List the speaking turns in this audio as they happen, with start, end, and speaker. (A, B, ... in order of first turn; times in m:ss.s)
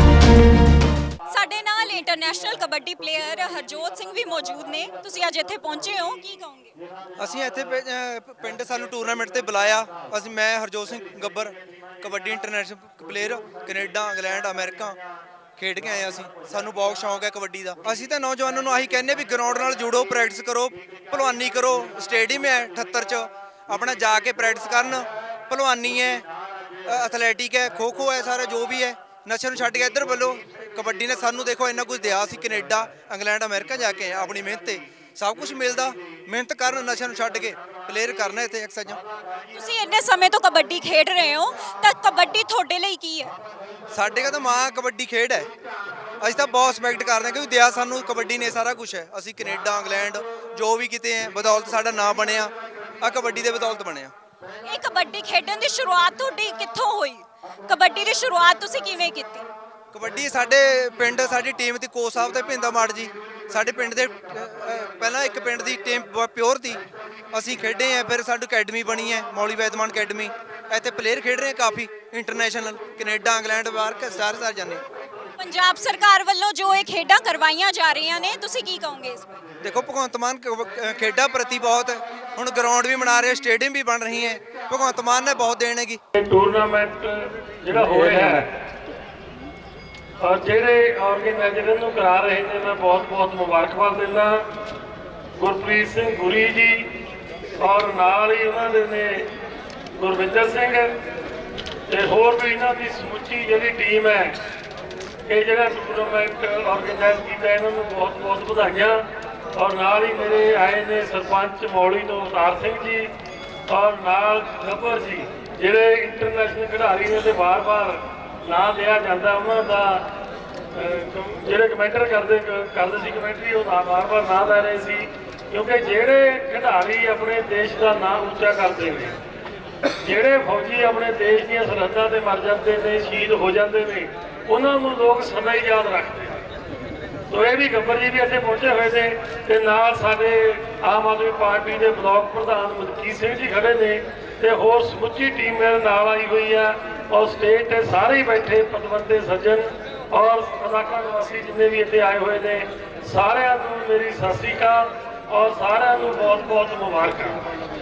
0:01.3-0:06.7 A
0:07.2-0:15.0 B
0:15.6-0:26.2 B
0:26.9-0:39.0 B
0:39.5-0:43.3 A
0:43.9-0:45.5 B
0:46.2-0:54.1 B
0:54.6-0:59.4 A
0:59.9-1:06.8 B
1:07.3-1:14.8 B
1:15.4-1:19.4 A
1:19.6-1:26.0 B
1:26.1-1:28.5 C
1:30.2-1:34.5 C
1:35.4-1:36.9 C
1:37.6-1:39.3 C
1:39.9-1:40.9 C
1:41.9-1:44.4 C
1:45.3-1:49.0 C
1:49.5-1:53.1 C
1:53.7-2:00.1 C
2:00.7-2:09.2 C
2:10.0-2:16.4 C
2:17.3-2:37.4 C